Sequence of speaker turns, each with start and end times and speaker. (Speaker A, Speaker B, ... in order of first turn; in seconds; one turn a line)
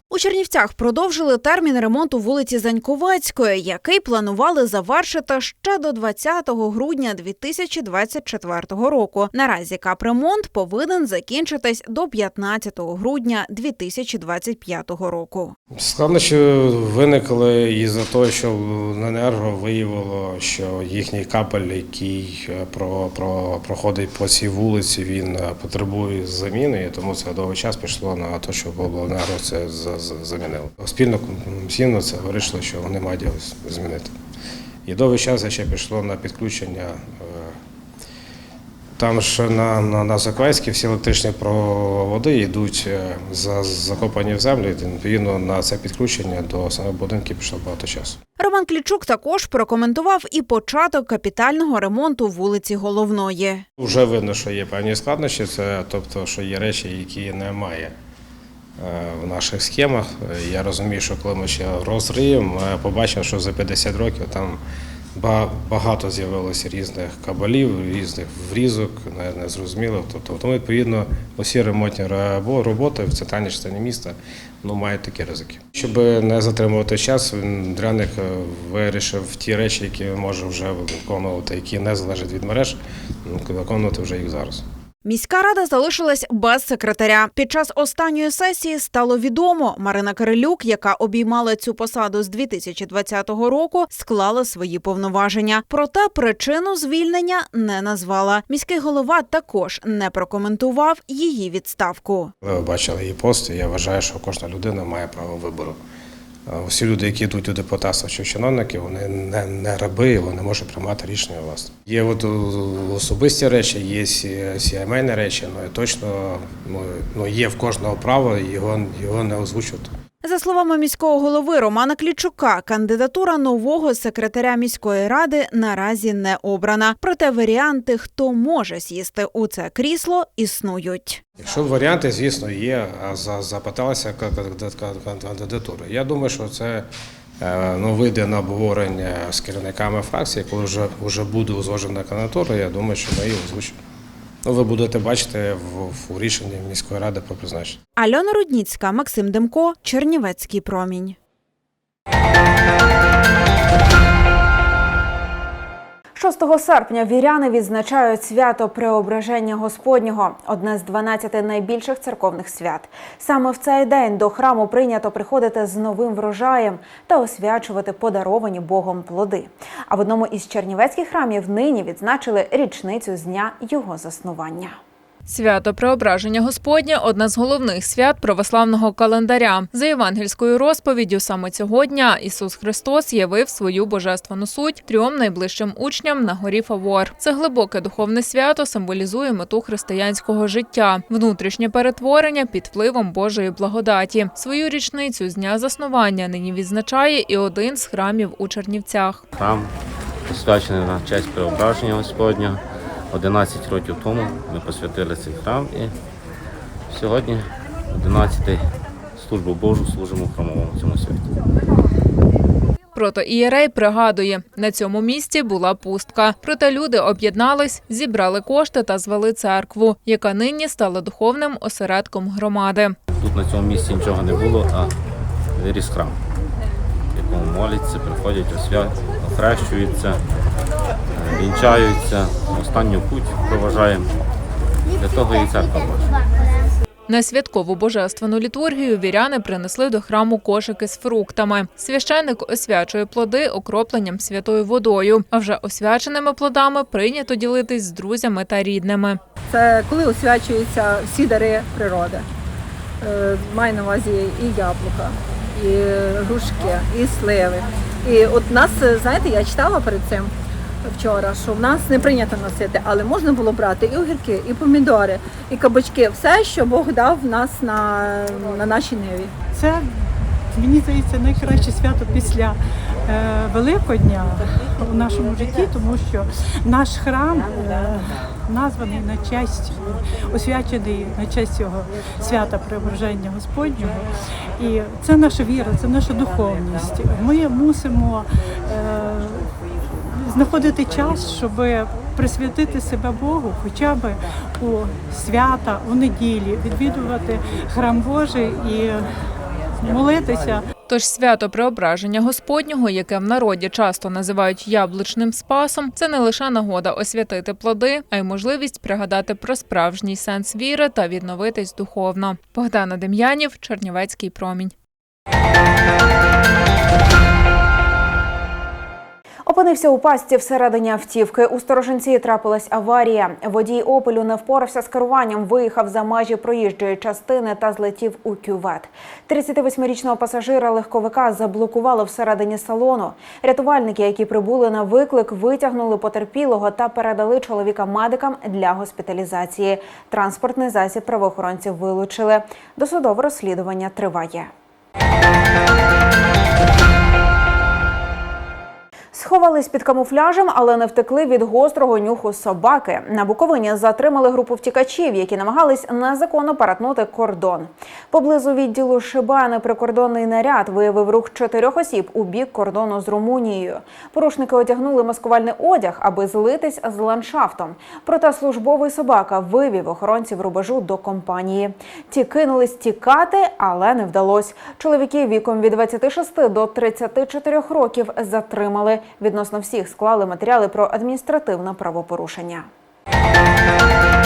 Speaker A: 0.1-15.6
Speaker B: 15.8-34.1
Speaker B: 34.9-37.5
Speaker B: 39.0-48.2
Speaker A: 48.4-53.6
Speaker B: 53.8-57.9
Speaker B: 58.8-64.6
Speaker B: 65.2-84.6
Speaker A: 85.0-102.3
Speaker B: 102.4-105.8
Speaker B: 106.5-119.9
Speaker A: 120.2-131.2
Speaker B: 131.4-136.9
Speaker B: 137.4-143.8
Speaker B: 144.4-147.8
Speaker A: 147.9-151.2
Speaker A: 156.1-174.7
Speaker C: 175.2-199.2
Speaker D: 199.3-199.7
Speaker D: 200.2-205.9
Speaker D: 206.9-211.3
Speaker C: 212.9-222.9
Speaker D: 223.2-224.9
Speaker D: 225.6-226.2
Speaker D: 227.1-230.2
Speaker D: 231.1-234.1
Speaker D: 234.9-236.1
Speaker C: 237.1-249.2
Speaker E: 249.5-252.3
Speaker E: 253.0-269.3
Speaker F: 269.5-269.9
Speaker F: 270.5-284.0
Speaker F: 284.6-289.5
Speaker F: 290.1-299.0
Speaker F: 299.8-300.6
Speaker C: 300.9-314.7
Speaker A: 319.4-344.5
Speaker A: 349.1-382.7